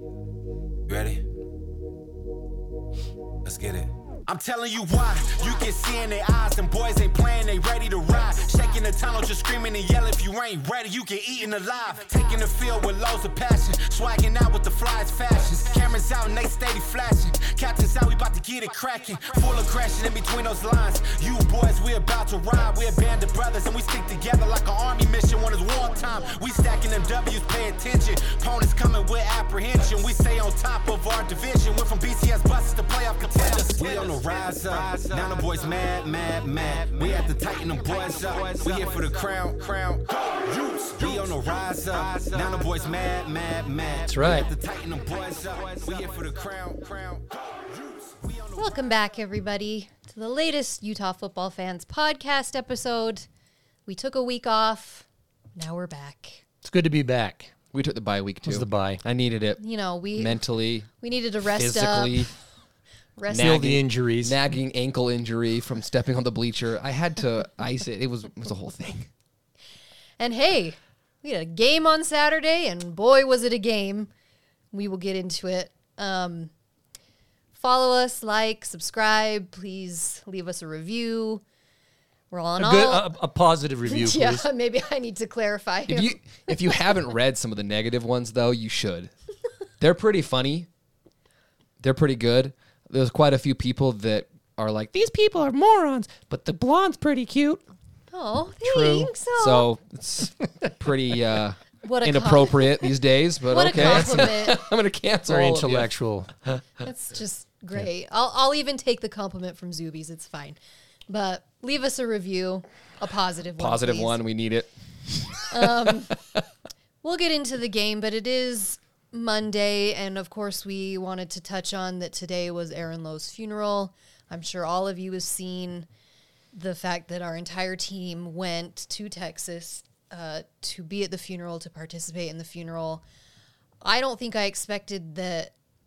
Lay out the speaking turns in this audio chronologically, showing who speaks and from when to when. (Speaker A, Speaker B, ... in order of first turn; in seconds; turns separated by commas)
Speaker A: 0.9-1.2, Speaker A: 3.4-48.7, Speaker B: 44.1-44.5, Speaker C: 48.5-53.3, Speaker C: 53.9-56.4, Speaker B: 56.6-57.5, Speaker D: 57.7-59.6, Speaker B: 58.5-59.0, Speaker C: 59.6-60.4, Speaker D: 60.1-60.9, Speaker C: 61.0-62.3, Speaker D: 61.5-62.3, Speaker C: 63.2-63.6, Speaker D: 63.3-69.1, Speaker B: 63.3-64.4, Speaker C: 70.2-74.1, Speaker C: 74.7-76.5, Speaker C: 77.5-81.4, Speaker C: 82.3-83.1, Speaker B: 82.6-84.4, Speaker C: 83.8-86.9, Speaker D: 85.9-89.1, Speaker D: 89.8-90.7, Speaker D: 91.8-97.6, Speaker C: 98.1-99.7, Speaker D: 98.6-105.9, Speaker C: 101.8-102.9, Speaker C: 103.5-104.7, Speaker B: 103.7-104.3, Speaker B: 105.3-106.3, Speaker C: 106.8-114.2, Speaker D: 113.6-116.4, Speaker C: 115.5-116.2, Speaker C: 117.0-125.9, Speaker C: 126.5-133.0, Speaker C: 133.8-135.5